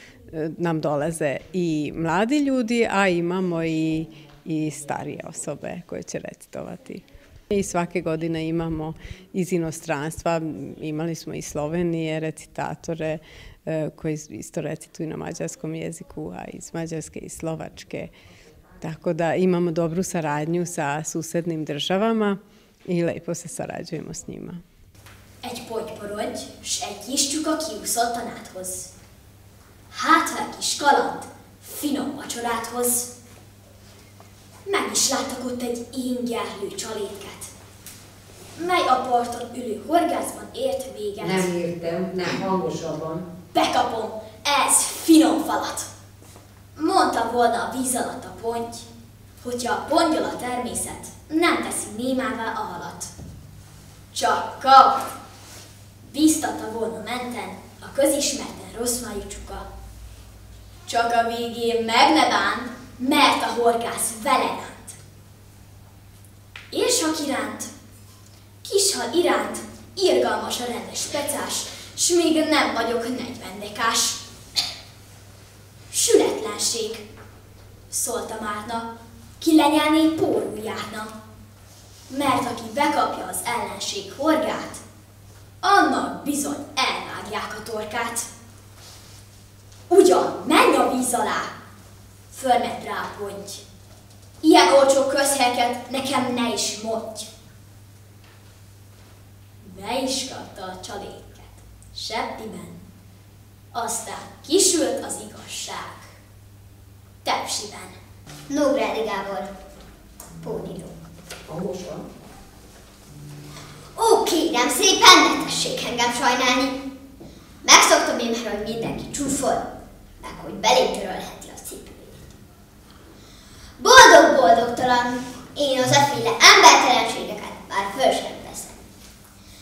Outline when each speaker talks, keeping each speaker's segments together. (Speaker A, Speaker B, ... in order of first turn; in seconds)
Speaker A: 0.3-18.1, 18.8-24.6
Speaker B: 25.4-28.9, 29.9-33.1, 34.6-37.5, 38.5-41.5, 43.5-45.9, 46.7-48.9, 49.4-53.1, 54.1-55.0, 56.0-59.6, 60.9-65.0, 66.7-67.7, 68.6-74.2, 75.9-77.0, 77.9-81.1, 82.1-84.8, 85.6-88.3, 89.9-91.5, 92.3-93.6, 94.4-97.3, 99.6-102.8, 103.7-106.1, 107.2-108.0
Speaker C: 41.2-43.2, 111.5-112.0
Speaker D: 108.5-109.5, 110.4-110.9, 113.9-116.8, 117.6-119.7, 120.2-122.3, 123.8-128.8